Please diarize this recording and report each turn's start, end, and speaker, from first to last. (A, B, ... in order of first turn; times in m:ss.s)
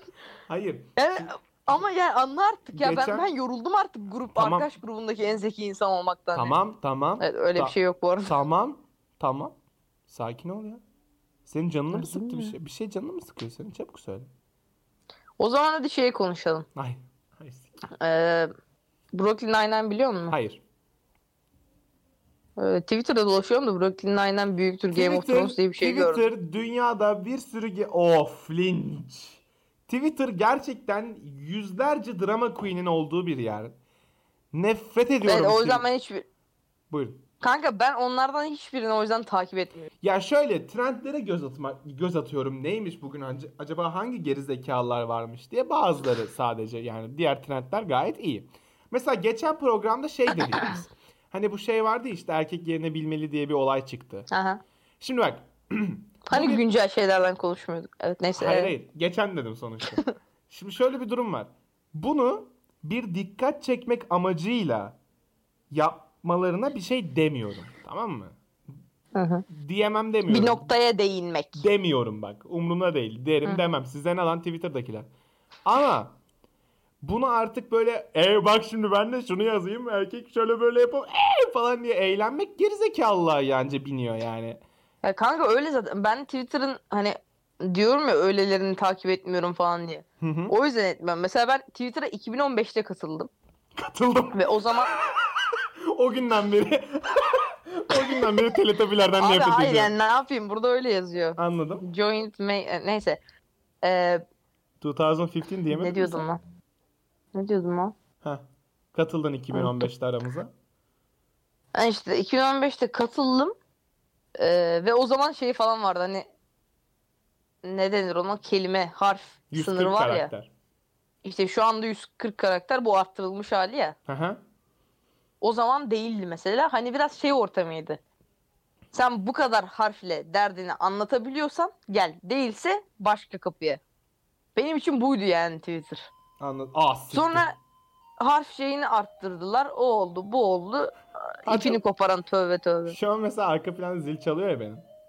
0:00.5-0:01.3 A
0:01.0-0:06.6 B
0:02.7-0:03.3 A
0:04.4-0:04.7 A
0:06.3-0:09.5 A
0:07.2-0:08.3 B
0:10.1-0:10.8 A
0:11.4-0:14.3 A
0:11.9-0:12.5 B
0:15.4-0:16.7 B
0:16.7-0:17.7 A
0:18.0-0:18.5 B
0:19.1-0:20.4 B
0:20.3-0:20.6 A
0:22.6-0:26.2 B
0:24.9-0:33.7 A
0:34.5-0:35.8 A
0:35.2-0:36.2 B
0:36.9-0:37.2 A
0:37.4-0:39.9 B
0:40.0-0:54.3 A
0:54.3-0:54.6 B
0:55.0-0:56.6 A
0:56.3-0:58.7 B
0:58.3-1:05.0 A
1:05.7-1:08.4 A
1:09.1-1:09.4 B
1:09.5-1:10.7 A
1:10.3-1:11.6 B
1:11.6-1:15.1 A
1:15.6-1:16.1 A
1:17.0-1:24.6 A
1:25.0-1:33.3 B
1:30.2-1:30.5 A
1:33.8-1:34.5 A
1:34.3-1:34.9 B
1:35.9-1:39.9 A
1:39.2-1:43.2 B
1:41.4-1:41.8 A
1:43.8-1:44.2 B
1:44.8-1:46.2 A
1:45.7-1:46.4 B
1:47.3-1:47.9 B
1:48.2-1:50.5 A
1:49.5-1:49.8 B
1:51.7-1:53.5 B
1:54.4-1:56.3 B
1:57.6-2:00.3 B
1:59.5-2:00.5 A
2:01.2-2:04.0 B
2:04.1-2:04.4 A
2:05.4-2:08.0 B
2:08.9-2:13.8 B
2:14.6-2:16.1 B
2:16.4-2:17.5 A
2:17.1-2:17.6 B
2:18.2-2:23.0 B
2:21.4-2:21.8 A
2:22.9-2:24.8 A